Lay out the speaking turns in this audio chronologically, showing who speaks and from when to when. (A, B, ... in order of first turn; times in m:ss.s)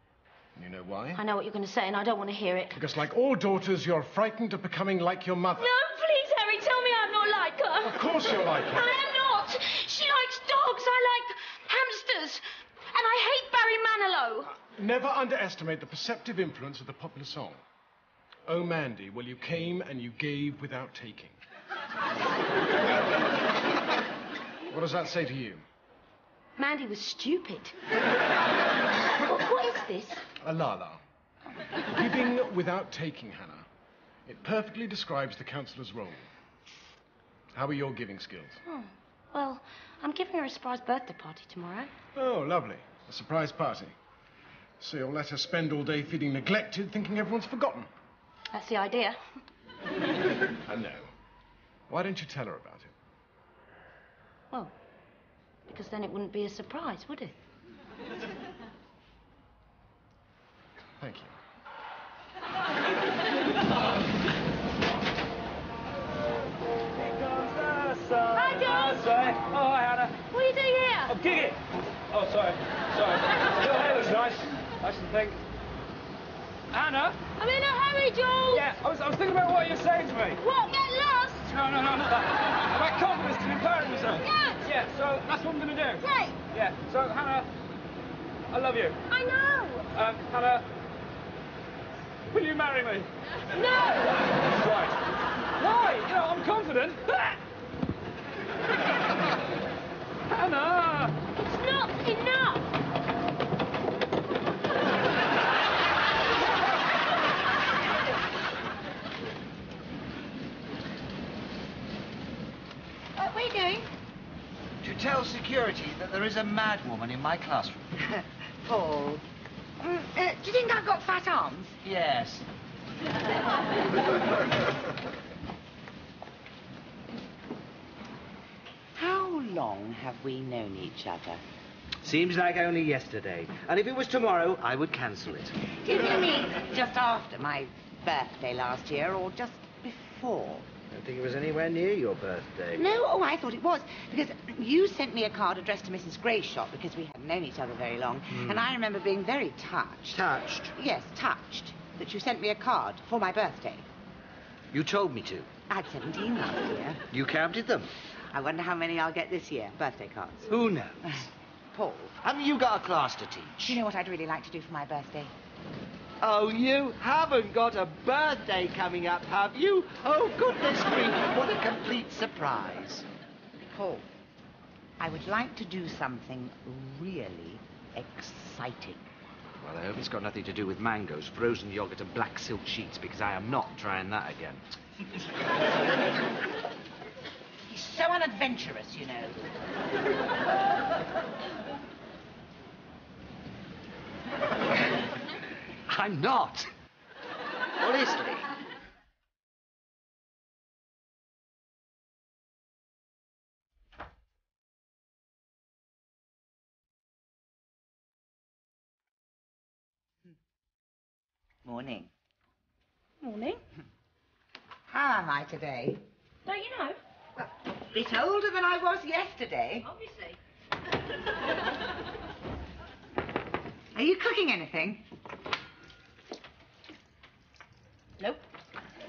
0:00.6-0:01.2 A
0:01.2-0:02.8 B
0:02.8-0:05.7 A
0:05.6-0:08.0 B
0:07.9-0:08.9 A
0:08.7-0:14.5 B
0:14.7-0:17.6 A
0:18.5-0:21.4 A
0:24.7-0:25.6 A
0:26.6-0:27.8 B
0:29.2-0:30.2 B
0:30.4-0:31.0 A
0:31.8-0:33.7 A
0:34.3-0:36.3 A
0:37.5-0:38.6 A
0:38.6-0:41.9 B
0:42.2-0:43.9 A
0:44.8-0:47.9 A
0:48.5-0:49.2 B
0:50.6-0:51.1 A
0:51.9-0:52.9 A
0:55.7-0:57.4 B
1:01.0-1:01.4 A
1:07.2-1:10.1 C
1:08.3-1:09.1 B
1:10.3-1:11.2 B
1:11.2-1:11.6 C
1:12.1-1:15.4 C
1:16.7-1:17.1 C
1:17.4-1:18.7 B
1:18.6-1:20.3 C
1:20.3-1:21.6 B
1:21.5-1:22.2 C
1:22.8-1:26.0 C
1:24.1-1:24.7 B
1:26.0-1:26.4 B
1:26.6-1:27.5 C
1:28.5-1:29.0 C
1:29.1-1:29.9 B
1:30.0-1:30.6 C
1:32.3-1:33.0 C
1:33.5-1:34.2 B
1:34.6-1:34.9 C
1:35.6-1:37.4 C
1:40.3-1:41.1 C
1:41.4-1:42.7 B
1:53.2-1:53.9 D
1:54.8-1:57.9 E
1:58.1-1:59.2 D
1:59.8-2:01.8 D
2:01.8-2:02.4 E
2:09.0-2:11.4 D
2:12.0-2:15.6 E
2:15.8-2:20.7 D
2:20.9-2:22.8 E
2:22.8-2:30.2 D
2:28.3-2:28.8 E
2:30.1-2:30.7 E
2:30.8-2:33.9 D
2:34.7-2:35.5 E
2:35.7-2:37.0 D
2:37.1-2:37.9 E
2:38.3-2:40.5 D
2:40.5-2:41.2 E
2:41.0-2:42.2 D
2:42.2-2:43.8 E
2:43.6-2:45.4 D
2:46.2-2:53.0 E
2:53.7-2:54.1 D
2:55.0-2:59.1 D
2:59.6-3:04.6 E
3:07.7-3:09.6 D
3:15.9-3:16.7 E
3:17.8-3:18.5 E
3:31.6-3:32.1 D
3:33.2-3:33.6 B
3:34.9-3:36.0 D
3:36.5-3:37.0 B
3:37.4-3:39.9 D
3:39.8-3:40.4 B
3:43.9-3:45.0 D